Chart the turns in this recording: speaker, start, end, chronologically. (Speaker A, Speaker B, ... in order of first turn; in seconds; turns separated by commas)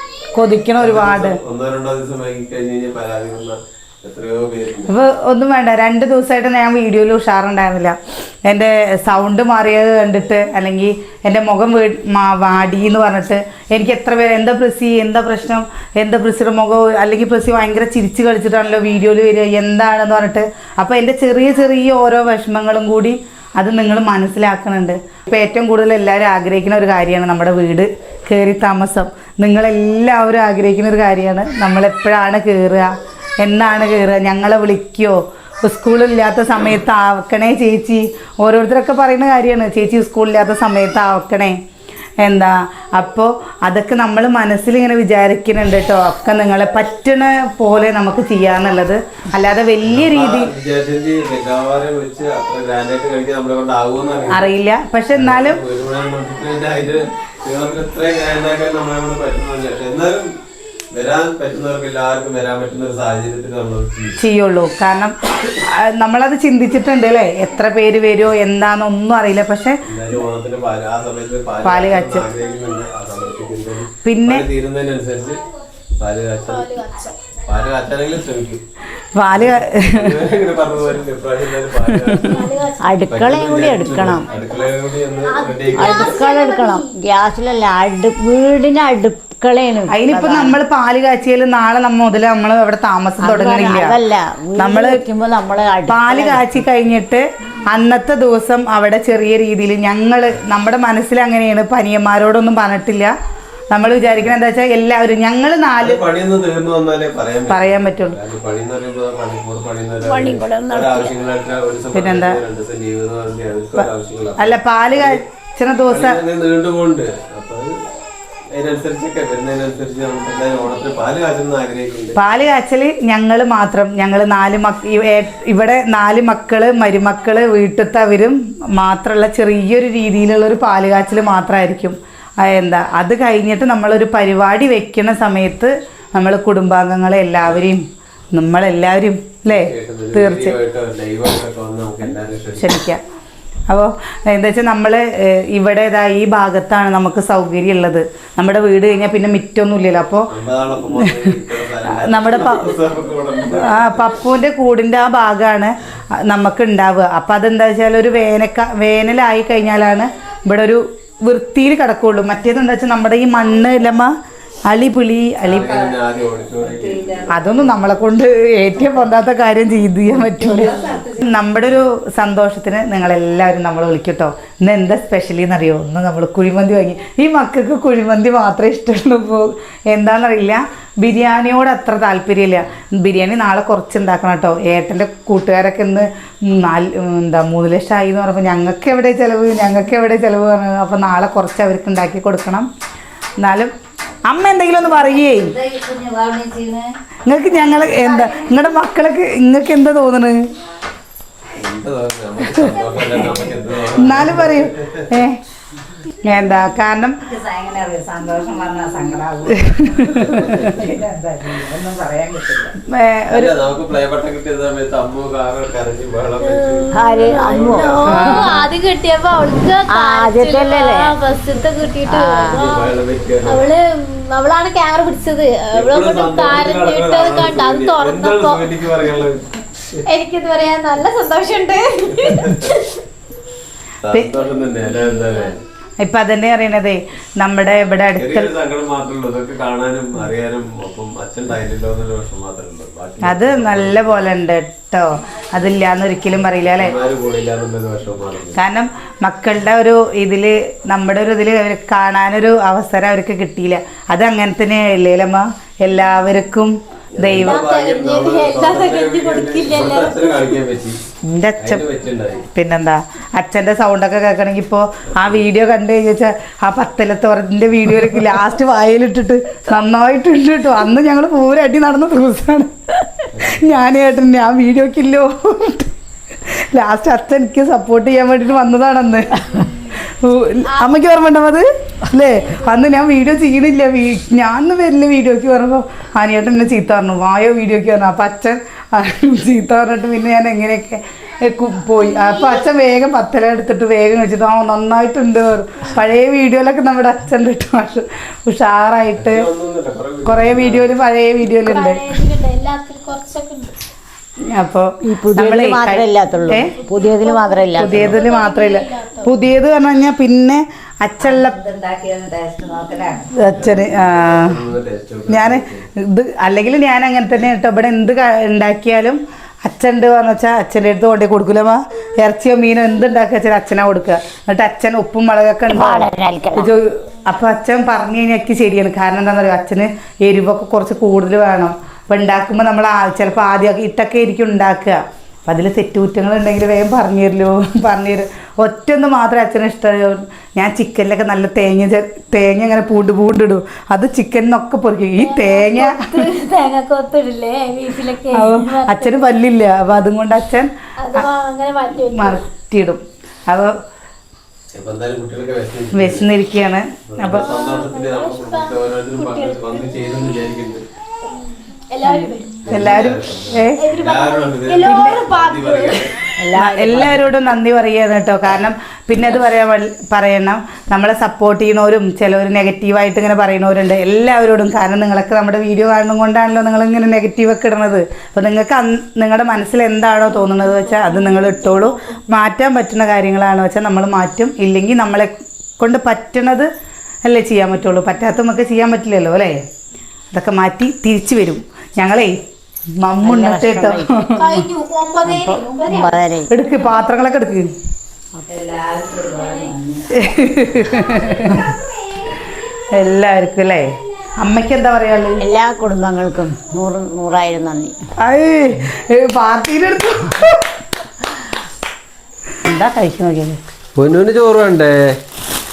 Speaker A: 0.3-1.4, Speaker B: 0.8-4.9, Speaker A: 4.9-41.6, Speaker A: 42.2-50.5, Speaker B: 49.9-54.5, Speaker A: 54.3-55.6, Speaker B: 55.1-60.3, Speaker B: 60.9-64.2, Speaker A: 64.2-69.8, Speaker B: 69.8-75.4, Speaker A: 71.6-72.3, Speaker A: 74.0-74.5, Speaker B: 76.0-76.7, Speaker C: 76.5-77.2, Speaker B: 77.5-78.6, Speaker A: 79.2-80.2, Speaker B: 79.3-82.6, Speaker A: 81.8-82.4, Speaker C: 82.2-83.1, Speaker D: 82.8-84.3, Speaker B: 83.1-86.2, Speaker C: 84.3-84.7, Speaker C: 85.2-86.9, Speaker D: 85.7-90.5, Speaker A: 89.9-94.0, Speaker D: 93.2-96.6, Speaker A: 94.6-95.0, Speaker A: 95.9-103.1, Speaker A: 103.7-106.0, Speaker B: 105.8-115.2, Speaker A: 107.5-108.2, Speaker D: 110.0-111.1, Speaker A: 111.9-112.4, Speaker A: 113.8-116.2, Speaker B: 115.9-117.8, Speaker B: 118.5-122.2, Speaker A: 122.1-140.6, Speaker B: 139.5-142.7, Speaker A: 142.6-143.0, Speaker A: 143.7-150.3, Speaker B: 150.3-154.1, Speaker A: 150.9-152.8, Speaker A: 153.5-164.1, Speaker A: 164.7-165.7, Speaker B: 165.4-167.5, Speaker E: 165.6-165.9, Speaker E: 166.6-167.4, Speaker A: 167.3-192.7, Speaker E: 170.4-171.3, Speaker A: 193.4-193.7, Speaker A: 194.2-195.5, Speaker E: 195.2-196.9, Speaker A: 197.2-200.4, Speaker E: 197.7-198.5, Speaker B: 201.5-205.1, Speaker A: 202.5-205.4, Speaker A: 206.2-207.2, Speaker E: 207.2-212.8, Speaker A: 209.6-210.8, Speaker A: 212.9-213.5, Speaker B: 213.3-218.5, Speaker C: 216.4-228.6, Speaker D: 216.9-218.2, Speaker A: 218.2-218.5, Speaker D: 219.9-221.1, Speaker D: 222.1-222.6, Speaker B: 222.5-223.7, Speaker B: 225.7-230.0, Speaker C: 230.1-233.0, Speaker B: 232.1-232.7, Speaker B: 234.0-235.6, Speaker C: 234.8-235.5, Speaker A: 236.0-238.5, Speaker B: 238.2-244.3, Speaker A: 243.2-246.9, Speaker B: 246.7-248.6, Speaker A: 248.5-257.6, Speaker B: 257.2-261.0, Speaker C: 257.4-260.5, Speaker A: 261.2-261.9, Speaker B: 261.6-262.4, Speaker A: 262.5-275.9, Speaker B: 273.3-273.7, Speaker A: 276.4-299.4, Speaker C: 280.6-281.0, Speaker C: 282.3-282.9, Speaker B: 299.1-300.9, Speaker A: 300.2-302.0, Speaker C: 301.6-303.7, Speaker A: 304.5-306.7, Speaker D: 305.0-308.1, Speaker C: 306.7-309.3, Speaker A: 307.8-311.6, Speaker E: 311.2-313.3, Speaker A: 313.4-314.6, Speaker B: 313.5-315.9, Speaker A: 315.3-346.3, Speaker D: 325.7-326.7, Speaker C: 345.2-349.2, Speaker A: 348.3-351.3, Speaker C: 351.0-352.4, Speaker A: 352.1-353.8, Speaker B: 354.7-356.3, Speaker A: 355.9-357.4, Speaker B: 357.1-360.8, Speaker C: 357.4-360.1, Speaker C: 361.3-362.7, Speaker A: 362.0-363.8, Speaker B: 362.6-366.1, Speaker C: 363.7-366.1, Speaker A: 364.8-365.3, Speaker D: 366.4-367.2, Speaker A: 366.5-386.7, Speaker C: 380.4-382.1, Speaker A: 387.2-389.6, Speaker A: 390.3-392.4, Speaker A: 393.0-394.7, Speaker D: 393.2-394.4, Speaker C: 394.4-396.2, Speaker D: 395.2-396.5, Speaker A: 396.5-397.7, Speaker E: 398.5-401.5, Speaker A: 400.1-401.7, Speaker A: 402.9-405.4, Speaker D: 405.4-407.9, Speaker A: 408.2-410.6, Speaker A: 412.6-413.6, Speaker B: 414.0-415.2